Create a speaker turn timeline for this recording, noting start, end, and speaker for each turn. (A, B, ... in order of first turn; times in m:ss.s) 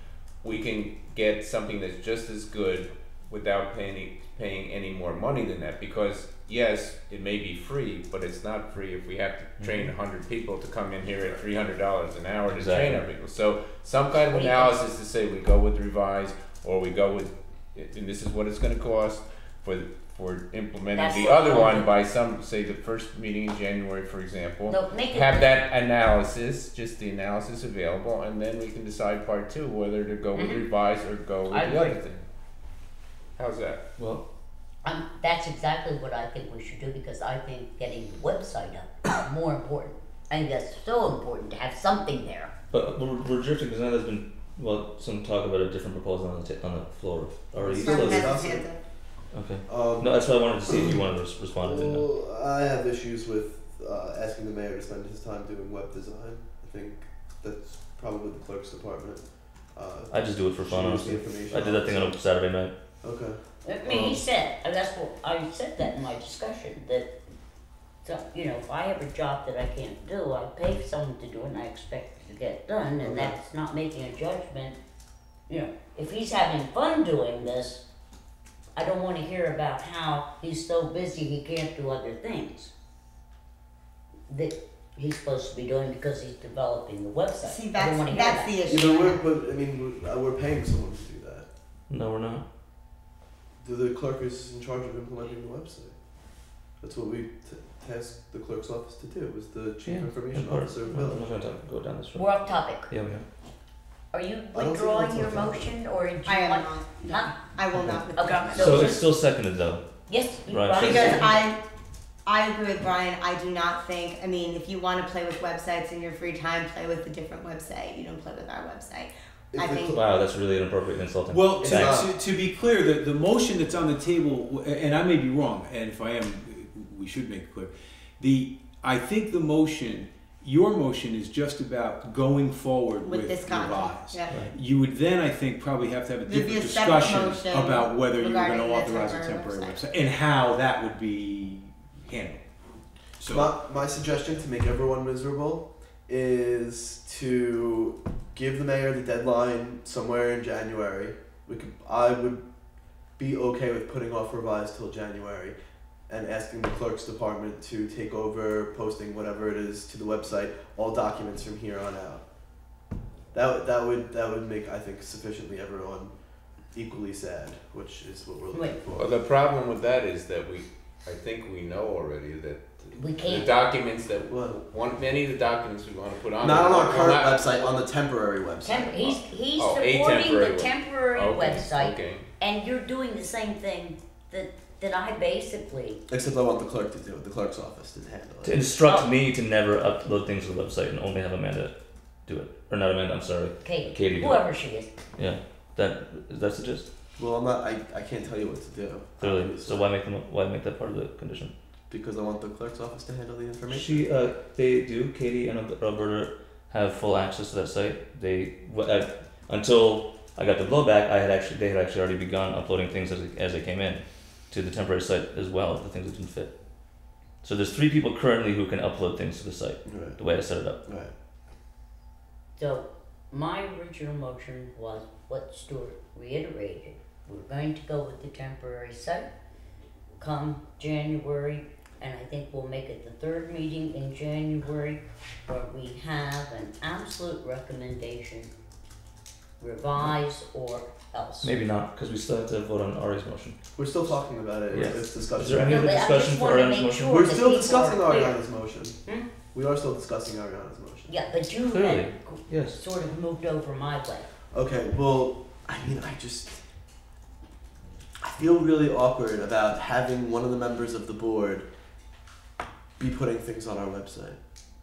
0:00.4-0:32.2 A
0:09.6-0:09.9 B
0:12.5-0:13.0 B
0:14.3-0:14.8 C
0:20.9-0:21.9 C
0:24.7-0:25.6 C
0:30.4-0:30.7 C
0:31.5-0:32.0 C
0:33.4-0:33.8 A
0:34.0-0:34.2 B
0:34.8-0:42.5 C
0:42.7-0:48.4 B
0:47.6-0:48.7 D
0:47.6-0:48.8 E
0:49.3-0:52.0 B
0:49.7-0:51.0 D
0:51.6-0:59.2 D
0:59.8-1:02.2 D
1:00.1-1:02.7 B
1:03.0-1:04.2 D
1:03.6-1:07.1 C
1:08.0-1:14.8 C
1:13.0-1:13.4 D
1:15.5-1:17.8 C
1:18.8-1:22.7 C
1:24.3-1:28.7 C
1:27.4-1:29.2 E
1:28.7-1:31.5 D
1:31.9-1:32.4 B
1:33.6-1:35.9 D
1:36.8-1:41.3 D
1:39.8-1:43.2 B
1:42.2-1:42.9 C
1:44.1-1:47.4 C
1:44.5-1:45.8 D
1:46.2-1:49.1 E
1:48.1-1:49.0 C
1:48.6-1:51.3 B
1:50.1-1:51.4 C
1:50.8-1:51.6 E
1:52.2-2:00.0 E
1:59.5-2:00.0 D
1:59.9-2:02.1 B
2:01.3-2:22.5 F
2:01.6-2:02.1 D
2:13.0-2:14.4 E
2:14.3-2:14.6 B
2:16.3-2:19.8 E
2:23.2-2:24.4 F
2:23.3-2:32.4 D
2:33.2-2:35.6 D
2:36.1-2:42.2 D
2:43.3-2:46.1 D
2:46.7-2:49.2 D
2:48.5-2:48.8 C
2:49.0-2:57.8 A
2:53.0-2:53.5 C
2:54.2-2:54.6 D
2:56.4-2:59.2 D
2:58.6-3:06.0 C
2:59.6-3:02.3 A
3:06.1-3:08.6 D
3:08.4-3:14.6 B
3:08.8-3:09.1 C
3:13.6-3:14.9 C
3:15.2-3:16.9 B
3:17.2-3:19.9 D
3:19.2-3:21.5 B
3:21.9-3:24.0 D
3:23.7-3:36.5 B
3:37.4-3:40.8 B
3:39.9-3:40.2 D
3:40.8-3:41.1 D
3:42.6-3:49.3 C
3:50.2-3:58.5 C
3:59.6-4:01.5 C
4:01.4-4:03.6 B
4:03.8-4:06.1 D
4:04.7-4:07.1 B
4:05.6-4:08.4 C
4:07.1-4:09.0 D
4:09.5-4:11.2 D
4:11.1-4:14.3 C
4:11.6-4:12.8 B
4:14.5-4:16.6 D
4:18.2-4:21.7 D
4:23.0-4:24.4 D